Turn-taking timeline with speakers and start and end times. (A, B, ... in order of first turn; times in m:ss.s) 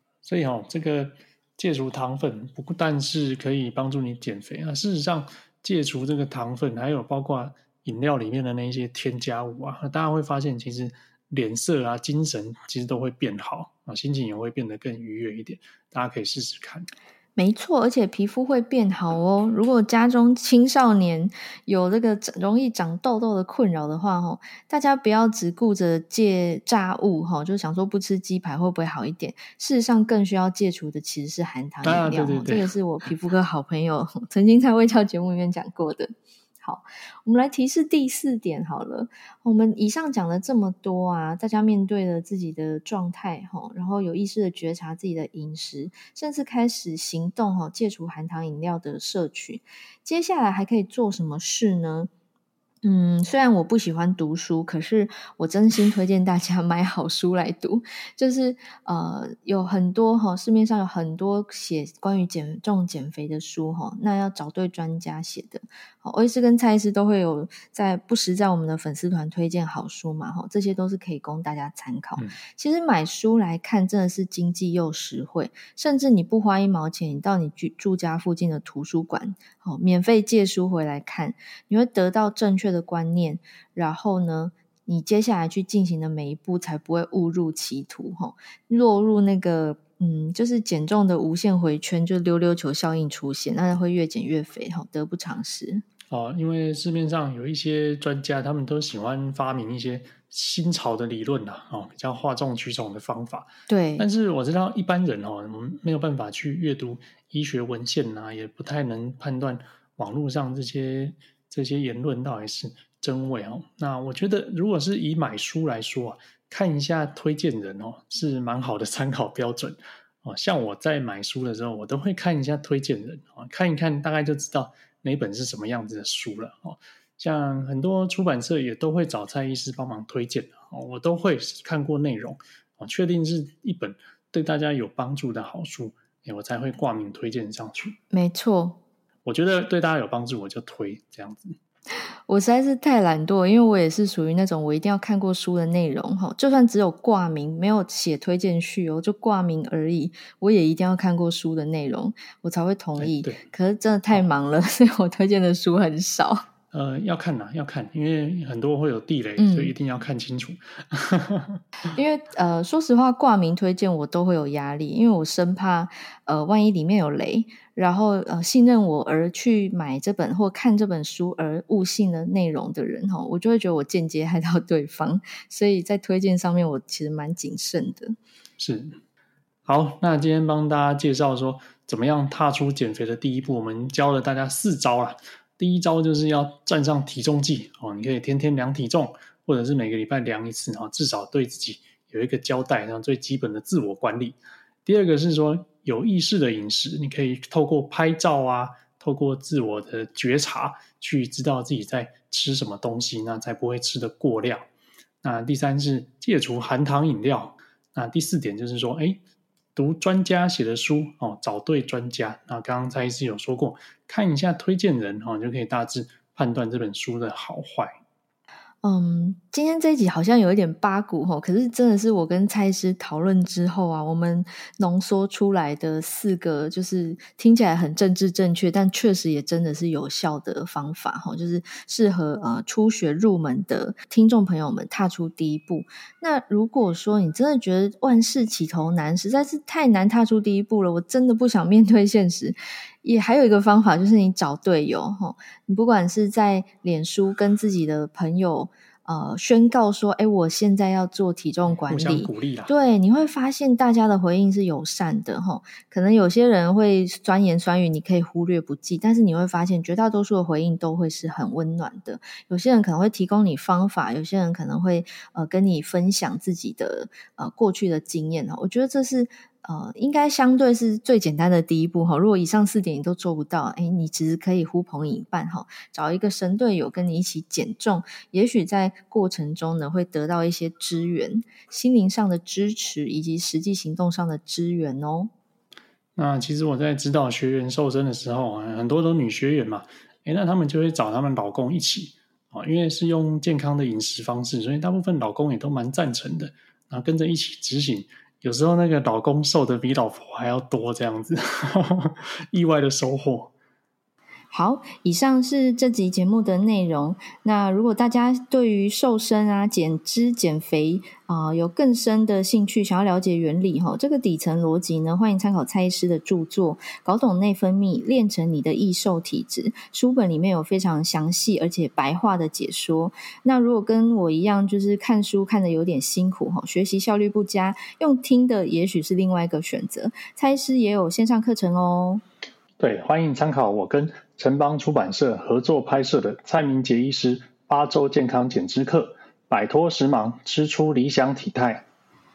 0:00.2-0:16.9 A
0:17.4-0:52.1 B
0:31.8-0:32.7 A
0:52.8-1:35.8 B
1:36.1-2:18.0 A
1:43.7-1:44.1 B
2:18.1-2:18.8 B
2:19.2-2:21.6 A
2:22.3-2:36.4 B
2:33.0-2:33.4 A
2:36.7-2:41.6 A
2:39.4-2:39.7 B
2:41.9-2:58.2 B
2:58.6-2:59.0 A
2:59.7-3:24.7 A
3:25.2-3:29.2 A
3:29.8-3:37.9 A
3:38.8-4:45.3 B
4:11.7-4:12.7 A
4:46.2-5:03.5 A
5:04.5-5:32.2 B
5:32.8-5:41.9 A